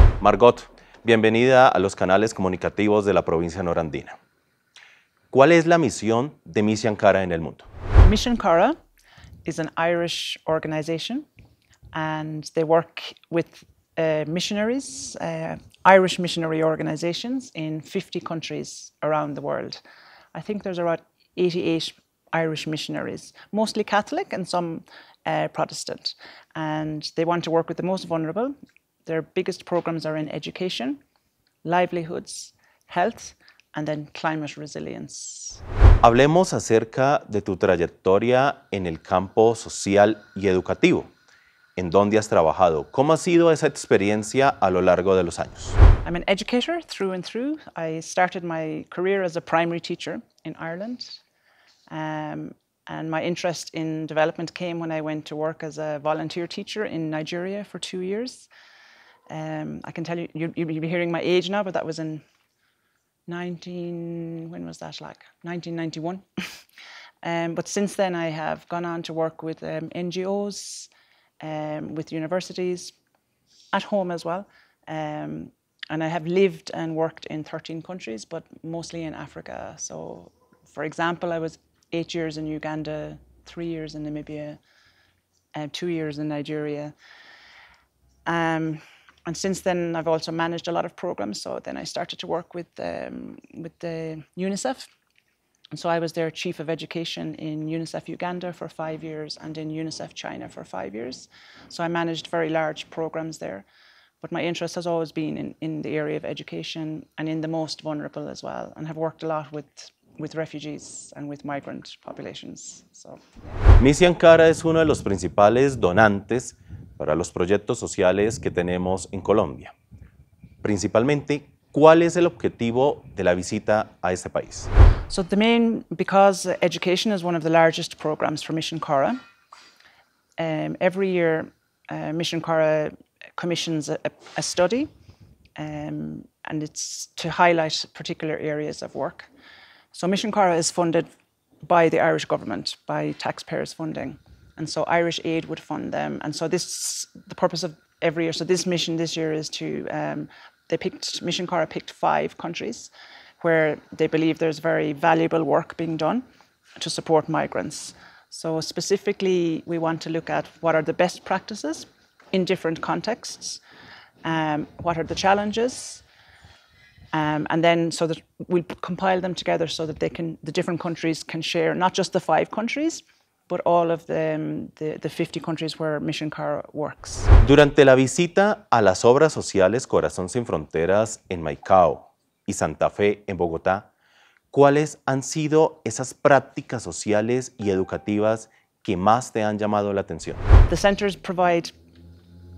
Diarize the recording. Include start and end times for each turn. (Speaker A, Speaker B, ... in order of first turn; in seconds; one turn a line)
Speaker A: 0.2-4.2
Speaker A: 5.3-7.7
Speaker B: 8.0-8.8
Speaker B: 9.4-11.3
Speaker B: 11.9-19.8
Speaker B: 20.3-28.5
Speaker B: 29.1-31.0
Speaker B: 31.6-35.6
Speaker A: 36.0-41.1
Speaker A: 41.8-45.8
Speaker B: 46.0-51.2
Speaker B: 51.9-58.5
Speaker B: 59.3-62.2
Speaker B: 63.3-66.6
Speaker B: 67.2-72.9
Speaker B: 73.7-84.6
Speaker B: 85.5-86.9
Speaker B: 88.2-94.9
Speaker B: 95.7-103.7
Speaker B: 104.2-113.6
Speaker A: 113.8-119.7
Speaker A: 120.6-124.7
Speaker B: 125.1-129.2
Speaker B: 130.4-134.9
Speaker B: 135.6-139.3
Speaker B: 139.9-141.1
Speaker B: 141.6-156.2
Speaker B: 156.8-163.6
Speaker B: 164.2-166.0
Speaker B: 167.1-177.3
Speaker A: 177.4-183.9
Speaker A: 184.5-190.4
Speaker B: 190.7-191.7